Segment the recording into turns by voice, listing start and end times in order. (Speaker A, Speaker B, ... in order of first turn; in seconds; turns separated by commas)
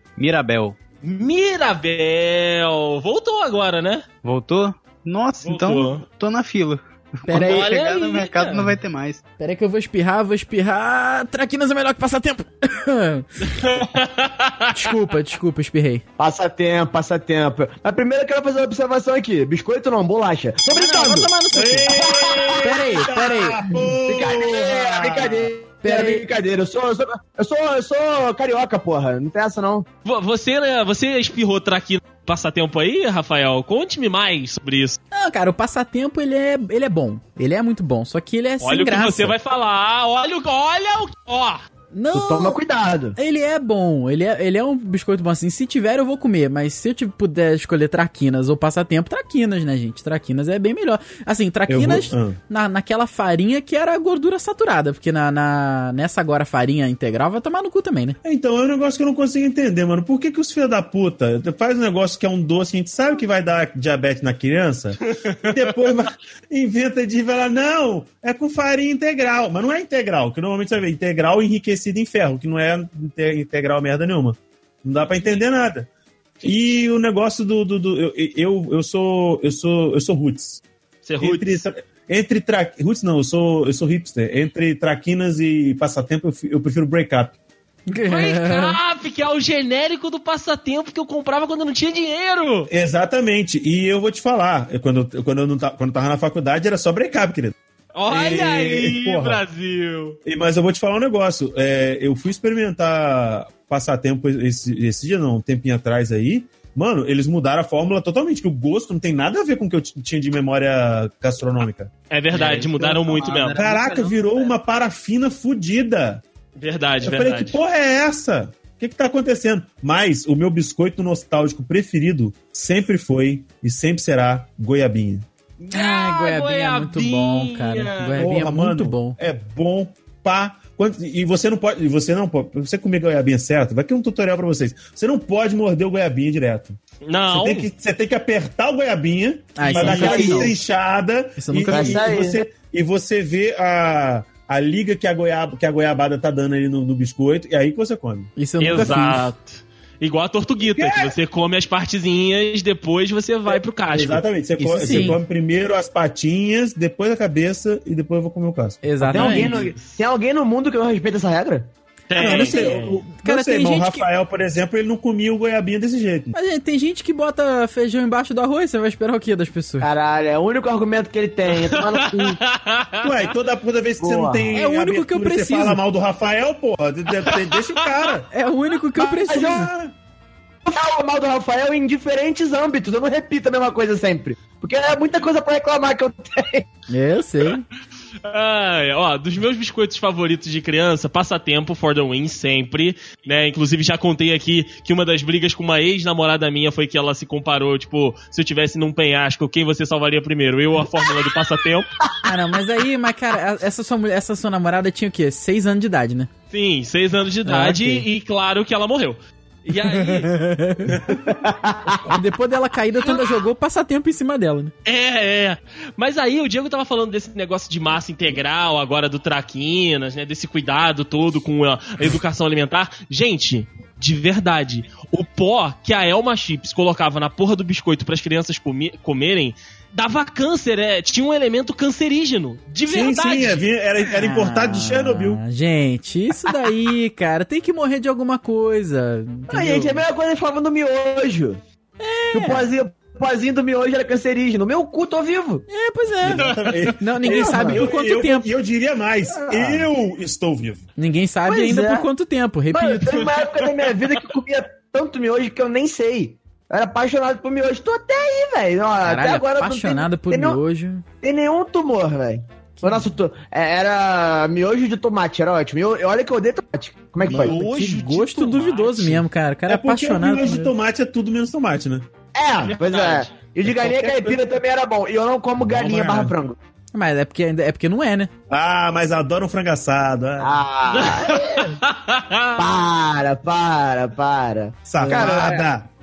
Speaker A: 0.2-0.8, Speaker B: 1.0-4.0, Speaker A: 4.2-9.2, Speaker B: 5.4-6.0, Speaker C: 7.3-7.7, Speaker B: 7.3-8.8, Speaker C: 9.4-13.6, Speaker B: 13.4-14.7, Speaker C: 14.7-16.0, Speaker D: 16.2-21.3, Speaker C: 20.7-21.9, Speaker E: 21.5-25.5, Speaker B: 21.6-23.0, Speaker D: 22.0-22.6, Speaker C: 22.6-23.6, Speaker D: 23.7-29.9, Speaker C: 25.8-26.3, Speaker B: 30.1-35.0, Speaker C: 35.1-39.3, Speaker B: 38.6-41.6, Speaker C: 41.9-42.6, Speaker D: 42.1-43.2, Speaker C: 43.2-58.2, Speaker E: 51.7-52.4, Speaker E: 58.2-75.9, Speaker B: 65.2-65.6, Speaker E: 76.4-80.6, Speaker B: 81.1-81.6, Speaker E: 81.2-87.4, Speaker C: 87.9-88.8, Speaker B: 88.1-92.7, Speaker E: 92.7-97.5, Speaker B: 98.0-100.2, Speaker E: 98.1-99.4, Speaker E: 100.2-111.9, Speaker B: 112.1-113.6, Speaker A: 112.3-114.5, Speaker E: 113.6-116.2, Speaker B: 116.6-117.6, Speaker E: 117.0-125.3, Speaker B: 125.6-128.2, Speaker C: 125.7-129.2, Speaker E: 128.2-148.3, Speaker B: 137.1-137.7, Speaker C: 139.6-140.5, Speaker D: 139.7-140.6, Speaker C: 141.4-142.2, Speaker D: 141.7-142.4, Speaker C: 148.4-149.3, Speaker B: 148.6-154.2, Speaker E: 150.7-151.1, Speaker E: 153.9-159.5, Speaker C: 154.6-155.2, Speaker B: 154.8-155.1, Speaker C: 158.8-159.6, Speaker D: 159.1-161.7, Speaker B: 159.1-160.0, Speaker B: 162.1-163.0, Speaker E: 162.2-166.3, Speaker C: 163.2-164.1, Speaker C: 166.3-169.9, Speaker D: 169.8-172.4, Speaker B: 171.5-173.2, Speaker E: 173.0-178.3, Speaker D: 174.0-174.6, Speaker C: 174.6-175.8, Speaker C: 178.3-179.7, Speaker D: 179.0-179.7, Speaker E: 179.3-179.9, Speaker D: 180.7-186.7, Speaker C: 186.9-187.6, Speaker B: 188.2-201.9, Speaker C: 202.2-206.3, Speaker B: 206.5-210.3, Speaker C: 207.5-208.1, Speaker C: 210.0-210.9, Speaker E: 210.9-211.4, Speaker D: 211.2-212.1, Speaker C: 212.1-214.7, Speaker B: 214.8-233.6, Speaker E: 232.9-235.4, Speaker C: 234.1-240.0, Speaker D: 239.5-241.6, Speaker C: 242.0-242.7, Speaker D: 242.3-245.7, Speaker C: 245.7-248.5, Speaker E: 246.2-250.8, Speaker B: 246.4-246.8, Speaker D: 247.2-247.8, Speaker D: 249.3-249.9, Speaker C: 251.0-253.3, Speaker D: 251.5-252.1, Speaker D: 252.7-260.6, Speaker B: 253.2-254.2, Speaker C: 259.0-261.0, Speaker D: 261.2-267.6, Speaker C: 262.8-263.1, Speaker C: 267.3-270.7, Speaker B: 267.3-269.2, Speaker E: 269.7-272.1, Speaker D: 272.4-276.6, Speaker B: 272.6-273.3, Speaker E: 273.6-274.4, Speaker E: 275.6-276.3, Speaker C: 276.9-278.3, Speaker E: 278.5-280.6, Speaker D: 280.4-281.8, Speaker B: 280.9-282.7, Speaker D: 282.6-285.7, Speaker E: 284.9-285.9, Speaker C: 285.0-285.3